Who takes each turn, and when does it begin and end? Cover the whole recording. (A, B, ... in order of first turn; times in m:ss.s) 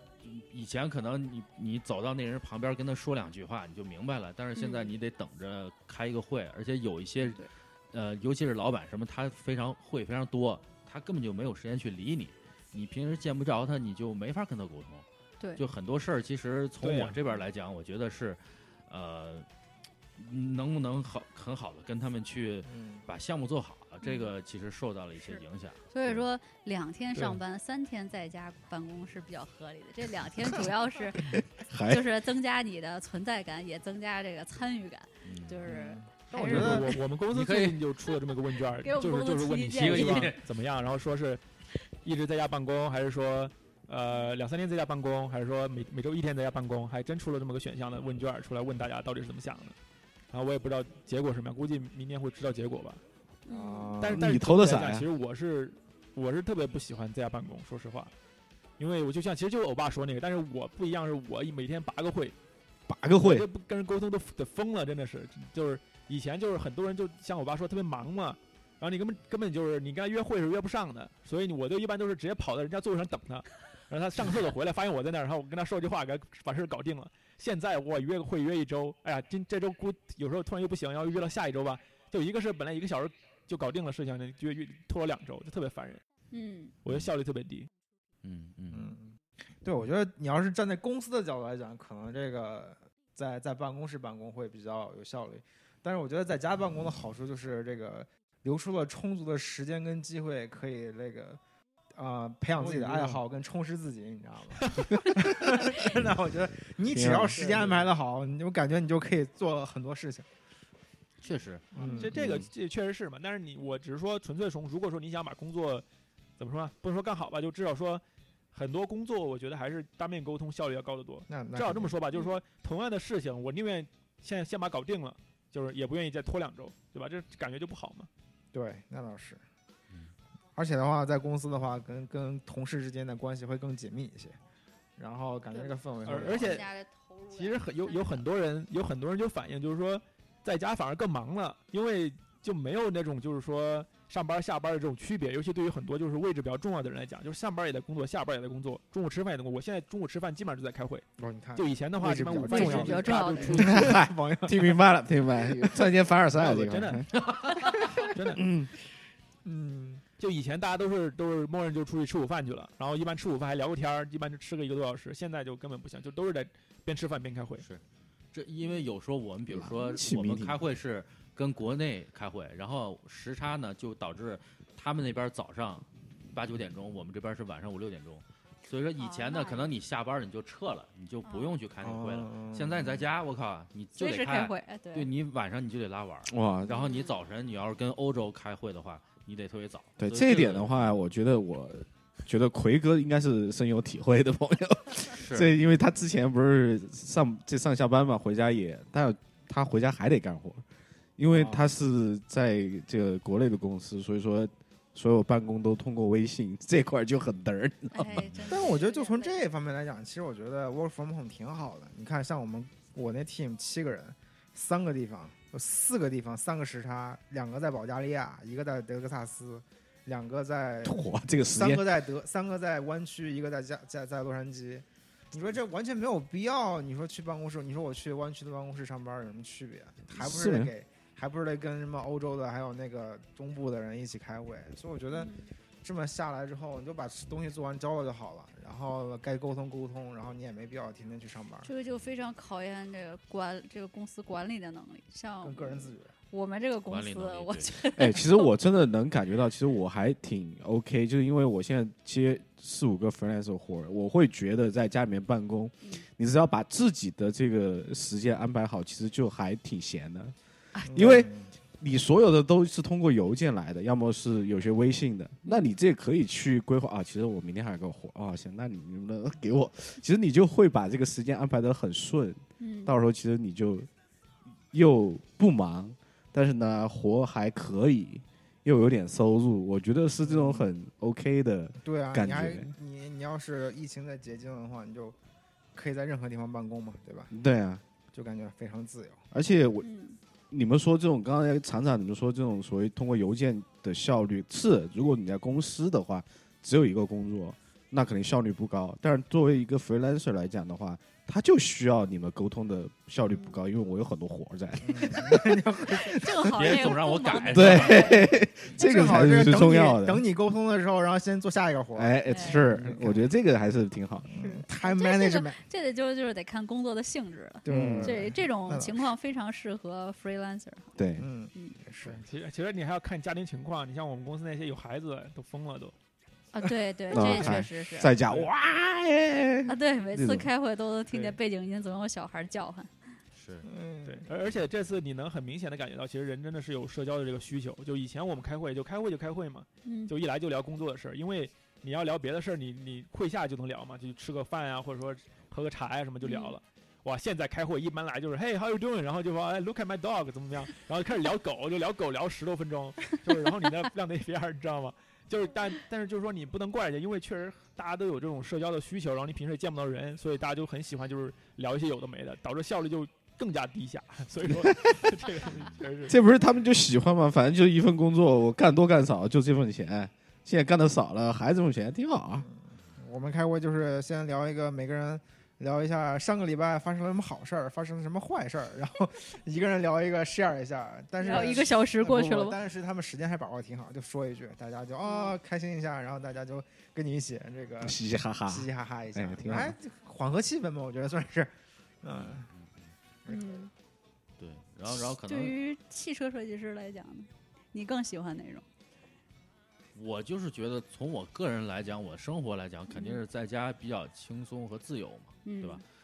0:00.2-0:15.0 A
0:04.6-0:04.9 B
0:07.2-0:07.5 B
0:15.6-0:19.5 A
0:16.8-0:17.2 C
0:20.2-0:26.2 A
0:22.6-0:23.1 D
0:24.0-0:24.3 B
0:25.2-0:31.2 B
0:27.1-0:27.4 C
0:31.2-0:32.0 E
0:31.9-0:36.9 B
0:35.2-0:35.7 A
0:35.7-0:37.0 D
0:36.4-0:41.4 C
0:36.5-0:37.8 A
0:38.8-0:40.4 B
0:39.7-0:40.4 A
0:42.0-0:49.8 C
0:50.3-0:53.0 C
0:53.4-0:53.9 B
0:53.5-0:54.2 D
0:54.0-0:58.1 C
0:54.0-0:55.1 E
0:58.8-1:02.4 C
1:02.9-1:03.5 E
1:03.2-1:26.0 C
1:26.3-1:26.7 B
1:26.8-1:27.7 C
1:28.2-1:28.9 A
1:28.7-1:41.4 D
1:42.0-1:50.3 D
1:42.6-1:43.2 C
1:46.8-1:47.6 E
1:47.3-1:47.9 C
1:51.2-1:51.8 A
1:51.7-1:52.2 D
1:51.8-1:55.8 C
1:52.2-1:52.4 E
1:56.4-2:08.1 C
2:01.3-2:02.0 D
2:08.5-2:09.4 D
2:10.6-2:14.4 D
2:15.0-2:16.6 D
2:15.5-2:18.2 B
2:16.0-2:16.7 C
2:17.3-2:31.0 C
2:31.2-2:34.8 D
2:31.6-2:34.0 C
2:32.4-2:33.8 B
2:33.6-2:37.1 E
2:35.4-2:35.9 D
2:36.3-2:37.1 C
2:37.2-2:37.8 A
2:37.7-2:38.1 D
2:38.0-2:38.4 C
2:38.3-2:38.7 E
2:39.4-2:40.0 D
2:40.2-2:47.6 C
2:48.3-3:10.9 A
2:49.5-2:50.6 E
2:59.0-2:59.7 B
3:01.2-3:01.6 B
3:01.8-3:03.1 D
3:04.0-3:05.1 B
3:06.3-3:06.8 E
3:06.7-3:07.2 B
3:10.0-3:20.6 E
3:15.1-3:15.5 A
3:21.2-3:28.3 E
3:21.3-3:21.7 D
3:27.9-3:29.4 B
3:28.1-3:28.7 A
3:28.5-4:01.7 D
3:40.8-3:41.9 E
3:50.1-3:50.7 E
3:55.1-3:55.5 B
4:01.6-4:08.5 B
4:05.4-4:06.1 D
4:06.9-4:07.7 A
4:07.9-4:20.3 E
4:20.7-4:21.1 B
4:20.9-4:21.5 D
4:20.9-4:33.9 E
4:25.4-4:25.7 B
4:32.6-4:32.9 B
4:34.7-4:42.7 E
4:40.2-4:40.7 D
4:41.8-4:45.2 D
4:45.7-4:47.3 D
4:47.3-4:47.8 E
4:48.1-4:49.2 D
4:49.3-4:49.9 E
4:49.8-4:50.2 B
4:50.5-5:05.6 E
5:03.3-5:03.6 B
5:04.8-5:06.3 D
5:05.9-5:08.4 B
5:06.5-5:08.2 A
5:07.5-5:10.2 E
5:08.7-5:13.2 D
5:11.9-5:14.3 E
5:12.3-5:12.7 B
5:14.3-5:15.6 D
5:14.4-5:20.9 B
5:17.6-5:19.1 D
5:17.7-5:18.3 E
5:21.0-5:21.2 E
5:21.2-5:22.2 D
5:22.0-5:25.9 C
5:26.5-5:28.1 B
5:27.1-5:30.5 E
5:29.7-5:32.9 B
5:31.1-5:31.4 C
5:33.3-5:33.7 A
5:33.6-5:34.3 D
5:34.0-6:06.2 C
5:39.8-5:40.1 B
5:46.2-5:46.6 B
6:04.4-6:05.1 E
6:06.1-6:12.5 E
6:12.4-6:28.0 D
6:21.2-6:22.6 B
6:25.0-6:25.3 B
6:27.8-6:29.8 E
6:28.5-6:32.5 D
6:32.1-6:32.9 A
6:33.2-6:33.6 D
6:33.3-6:33.7 B
6:34.4-6:35.6 A
6:35.2-6:38.6 B
6:39.9-6:45.8 A
6:42.9-6:43.2 B
6:45.4-6:45.8 B